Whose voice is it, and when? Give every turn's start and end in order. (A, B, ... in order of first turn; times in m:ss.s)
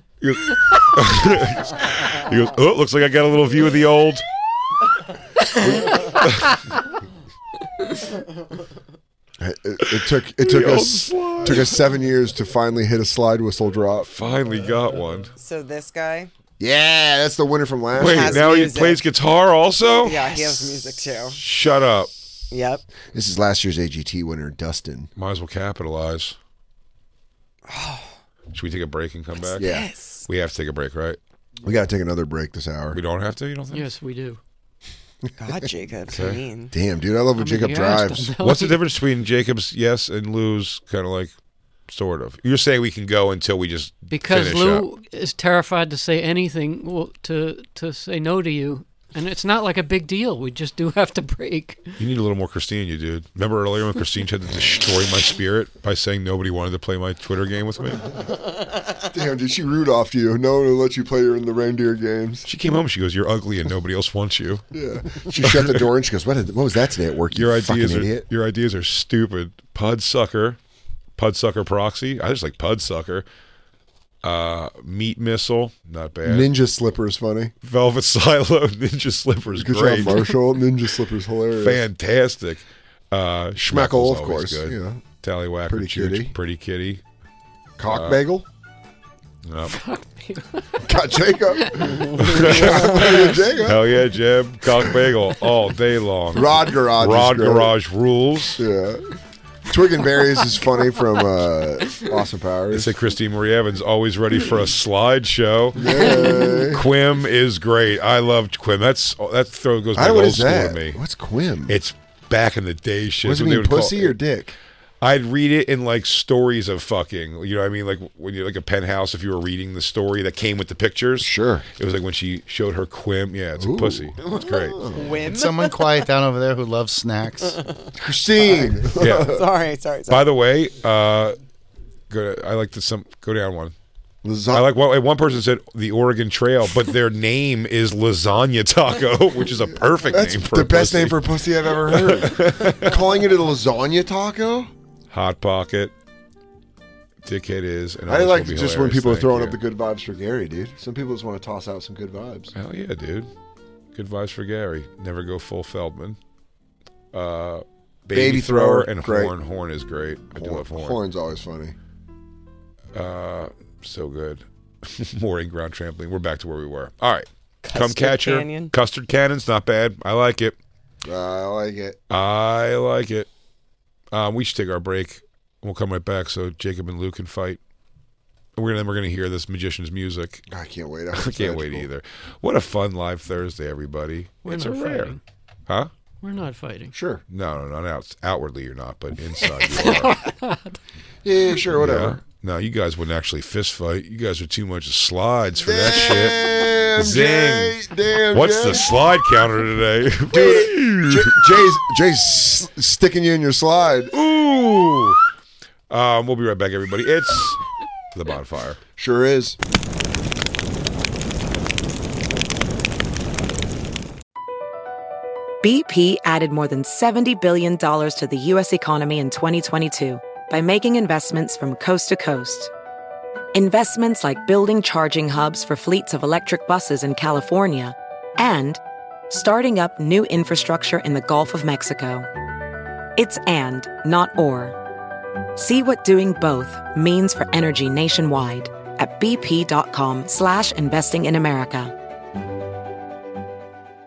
0:00.2-0:04.2 A
0:05.7-0:06.6 A
0:09.4-0:14.1 B
0:09.8-0:11.8 A
0:14.0-0:15.3 A
0:15.4-0:16.3 C
0:16.6-0:18.4 B
0:18.0-0:19.0 C
0:18.0-0:22.1 A
0:20.0-0:21.4 C
0:22.5-0:22.8 C
0:23.1-0:25.1 B
0:25.2-0:26.4 A
0:27.7-0:28.1 C
0:28.5-0:29.7 A
0:29.4-0:30.3 C
0:29.6-0:29.9 B
0:30.3-0:31.2 A
0:31.6-0:33.0 B
0:32.9-0:33.9 A
0:33.7-0:34.4 D
0:35.4-0:36.7 C
0:36.1-0:36.4 A
0:36.7-0:38.4 B
0:37.4-0:38.8 D
0:38.4-0:41.3 A
0:41.9-0:44.9 A
0:44.1-0:51.9 D
0:52.0-0:58.1 A
0:59.1-1:02.5 B
1:02.5-1:04.6 A
1:04.7-1:08.3 B
1:05.3-1:05.9 A
1:07.3-1:10.6 A
1:11.2-1:13.2 A
1:14.2-1:16.5 A
1:16.2-1:17.5 B
1:17.6-1:20.3 A
1:19.6-1:21.8 B
1:21.6-1:27.0 A
1:23.6-1:25.1 B
1:25.7-1:26.3 B
1:27.8-1:28.5 B
1:27.9-1:28.2 A
1:29.4-1:29.8 A
1:29.7-1:30.8 D
1:30.8-1:33.9 B
1:32.0-1:38.6 A
1:36.3-1:37.7 B
1:38.6-1:39.0 B
1:39.7-1:42.9 B
1:42.7-1:51.0 A
1:45.8-1:46.9 B
1:50.0-1:51.8 B
1:51.7-1:54.2 A
1:53.2-1:54.6 B
1:55.0-2:04.8 A
2:01.2-2:01.6 B
2:03.6-2:05.2 B
2:04.3-2:06.1 C
2:05.2-2:07.6 E
2:07.4-2:07.9 C
2:08.0-2:09.4 B
2:08.4-2:10.3 C
2:09.0-2:09.4 A
2:10.1-2:11.4 A
2:12.1-2:13.7 A
2:14.2-2:14.7 B
2:14.5-2:21.3 A
2:20.1-2:24.7 B
2:21.8-2:23.0 A
2:25.1-2:25.9 A
2:27.2-2:29.6 A
2:28.1-2:32.5 B
2:32.6-2:33.3 A
2:33.9-2:36.2 A
2:37.1-2:41.0 A
2:38.1-2:39.3 B
2:40.3-2:41.8 B
2:42.9-2:50.6 A
2:47.6-2:48.7 C
2:51.0-2:52.0 B
2:52.1-2:53.3 A
2:54.1-2:57.6 A
2:58.6-3:00.4 A
3:00.5-3:01.9 B
3:01.1-3:05.2 A
3:04.4-3:05.2 D
3:06.2-3:07.0 D
3:06.9-3:07.2 B
3:07.3-3:10.2 A
3:09.7-3:10.8 D
3:11.2-3:12.2 B
3:11.7-3:17.8 A
3:15.6-3:19.0 B
3:18.3-3:21.6 A
3:20.3-3:24.1 B
3:24.1-3:25.2 A
3:25.9-3:27.6 A
3:28.1-3:28.8 A
3:29.0-3:29.6 B
3:35.6-3:42.7 F
3:43.5-3:52.3 F
3:53.2-3:54.8 F
3:55.6-4:02.0 F